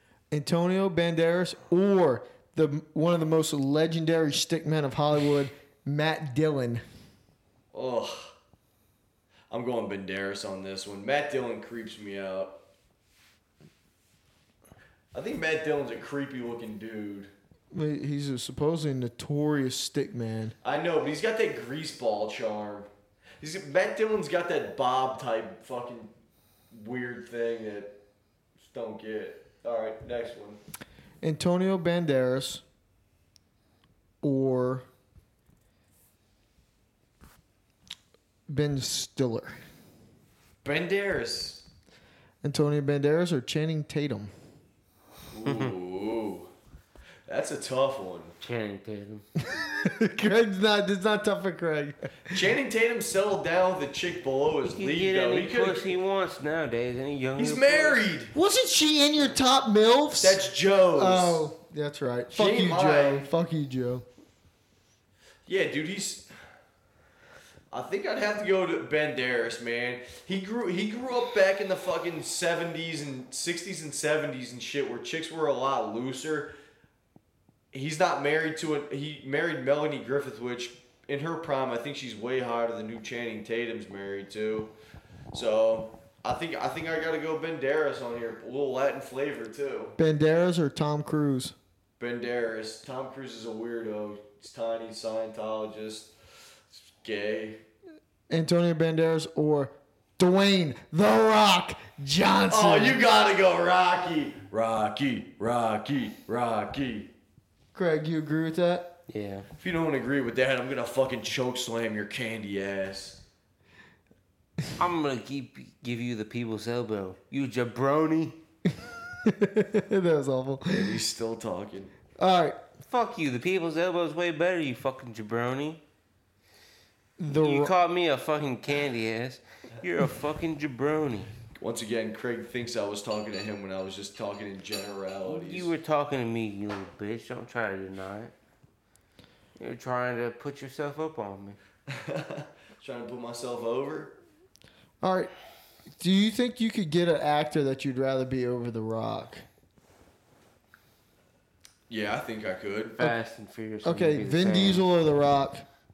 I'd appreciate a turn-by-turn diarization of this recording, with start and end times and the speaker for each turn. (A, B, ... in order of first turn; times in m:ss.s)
0:00.3-0:06.8 A
0:07.7-0:08.3 B
0:09.5-0:12.6 B
0:15.1-0:17.3 B
0:17.7-0:20.5 A
0:20.6-0:22.9 B
0:23.4-0:26.1 B
0:26.7-0:28.0 B
0:28.6-0:30.6 B
0:31.2-0:32.6 A
0:34.2-0:34.8 A
0:38.5-0:39.6 A
0:40.6-0:41.6 B
0:42.4-0:44.3 A
0:45.3-0:46.5 B
0:45.4-0:45.7 C
0:47.3-0:48.3 B
0:48.4-0:49.2 C
0:49.5-0:52.4 A
0:52.3-0:55.9 B
0:54.6-0:58.0 C
0:57.4-0:58.3 B
0:58.3-1:00.4 A
1:00.2-1:01.5 B
1:01.0-1:04.0 A
1:02.3-1:03.3 B
1:05.4-1:06.3 B
1:07.7-1:16.5 B
1:17.7-1:24.7 B
1:25.3-1:30.0 B
1:30.0-1:31.6 A
1:32.0-1:36.1 B
1:36.7-1:37.6 B
1:38.3-1:43.0 A
1:42.5-1:47.1 B
1:47.7-1:49.0 A
1:49.1-1:49.5 C
1:49.6-1:53.2 B
1:54.8-1:58.4 C
1:59.2-2:01.0 A
2:00.7-2:01.9 B
2:02.2-2:02.6 A
2:02.9-2:05.8 C
2:07.2-2:07.7 A
2:07.3-2:11.3 C
2:11.6-2:15.7 B
2:15.2-2:18.3 C
2:19.6-2:21.6 C
2:21.9-2:24.1 B
2:25.0-2:25.3 A
2:26.0-2:29.4 A
2:31.9-2:33.0 B
2:33.0-2:34.8 C
2:33.8-2:35.6 A